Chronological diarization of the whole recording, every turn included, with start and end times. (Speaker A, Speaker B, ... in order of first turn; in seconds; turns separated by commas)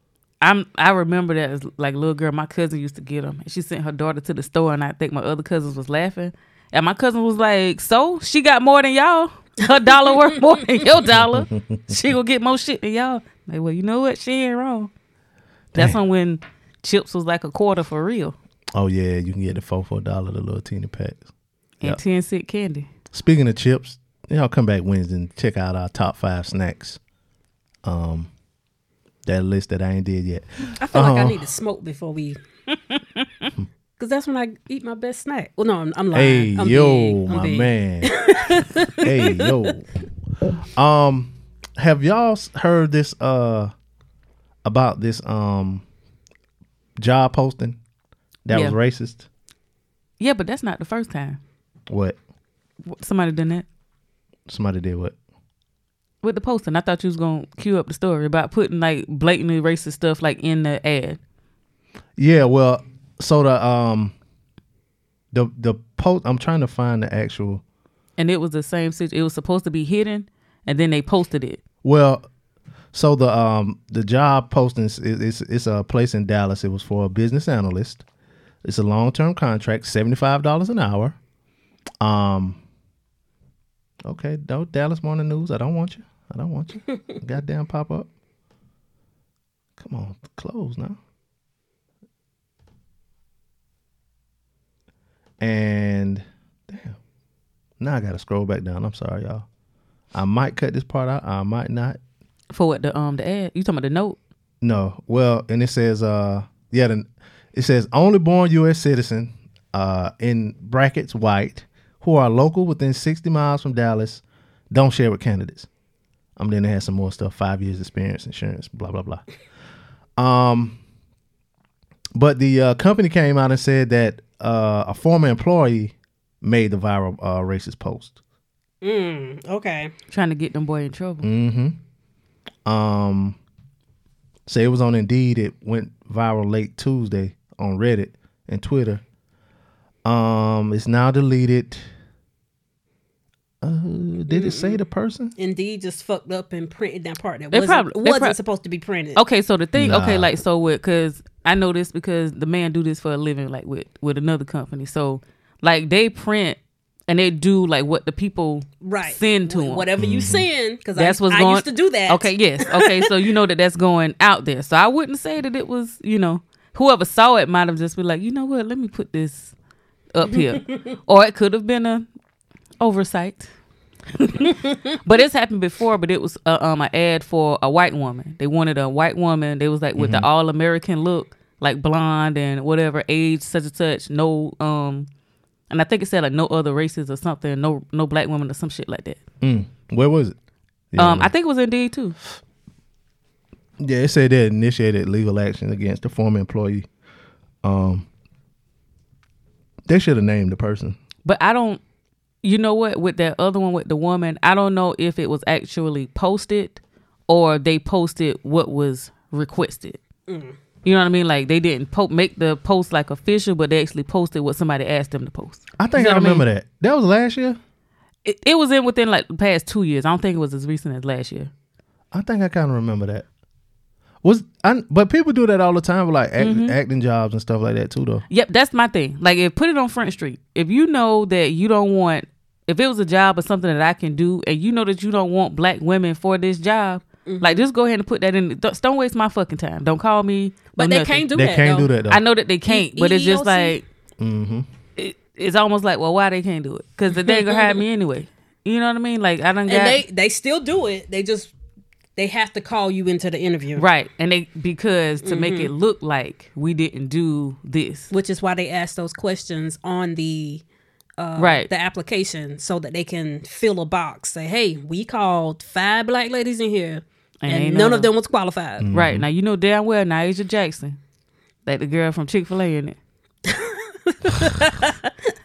Speaker A: 0.4-14.9, Speaker B: 11.1-11.9, Speaker B: 15.7-16.0, Speaker A: 15.7-18.4, Speaker B: 18.7-21.2, Speaker A: 21.8-22.9, Speaker B: 23.1-27.0, Speaker B: 27.8-28.3, Speaker B: 29.2-31.5, Speaker C: 30.8-32.4, Speaker A: 33.2-33.5, Speaker C: 34.0-39.7, Speaker B: 36.1-38.1, Speaker B: 39.0-39.9, Speaker B: 40.7-43.7, Speaker B: 44.6-45.8, Speaker B: 47.0-47.8, Speaker B: 48.5-49.3, Speaker A: 48.5-48.8, Speaker A: 50.2-51.4, Speaker B: 51.9-52.2, Speaker A: 52.9-53.6, Speaker B: 54.5-55.1, Speaker A: 56.2-61.2, Speaker B: 62.2-64.1, Speaker B: 65.3-67.6, Speaker A: 68.2-71.6, Speaker B: 71.8-72.2, Speaker B: 72.9-78.0, Speaker B: 78.6-81.2, Speaker B: 82.0-82.6, Speaker B: 84.0-88.1, Speaker B: 89.8-91.0, Speaker B: 95.4-97.0, Speaker B: 97.8-99.4, Speaker B: 100.1-102.0, Speaker A: 102.5-104.2, Speaker B: 104.6-115.7, Speaker B: 116.4-119.2, Speaker B: 120.2-120.8, Speaker B: 122.1-128.2, Speaker C: 128.8-129.9, Speaker A: 130.1-131.3, Speaker B: 131.2-131.8, Speaker B: 132.7-133.4, Speaker B: 134.4-139.0, Speaker B: 140.0-141.8, Speaker B: 143.6-145.3, Speaker C: 144.3-144.8, Speaker C: 145.4-149.2, Speaker A: 147.5-148.4, Speaker A: 149.2-159.8, Speaker B: 149.8-150.3, Speaker C: 158.8-163.1, Speaker B: 160.0-160.4, Speaker A: 160.9-169.5, Speaker A: 170.1-172.1, Speaker C: 170.3-170.8, Speaker A: 172.8-173.5, Speaker A: 174.1-185.1, Speaker B: 180.0-180.3, Speaker A: 185.7-189.2, Speaker B: 189.4-190.3, Speaker B: 190.9-191.3, Speaker A: 191.0-192.2, Speaker B: 193.8-196.9, Speaker B: 197.6-198.1, Speaker B: 199.9-201.0, Speaker A: 201.2-201.8, Speaker A: 202.4-210.0, Speaker C: 210.3-210.5, Speaker A: 210.8-216.4, Speaker B: 215.8-217.6, Speaker A: 218.2-221.5, Speaker B: 222.1-223.2, Speaker B: 224.2-228.2, Speaker A: 226.4-226.8, Speaker A: 228.3-241.3, Speaker C: 237.2-237.6, Speaker C: 240.8-241.9, Speaker B: 241.3-242.2, Speaker A: 242.1-243.8, Speaker C: 242.7-243.8, Speaker B: 244.2-244.7, Speaker A: 245.0-250.0, Speaker C: 247.1-247.8, Speaker C: 249.7-251.5, Speaker C: 252.2-253.9, Speaker A: 253.8-258.1, Speaker C: 255.2-255.7, Speaker C: 258.1-260.6, Speaker C: 261.2-268.9, Speaker A: 261.4-261.7, Speaker A: 267.4-268.1, Speaker B: 268.8-269.2, Speaker A: 268.9-271.0, Speaker A: 271.6-273.0, Speaker C: 273.4-275.1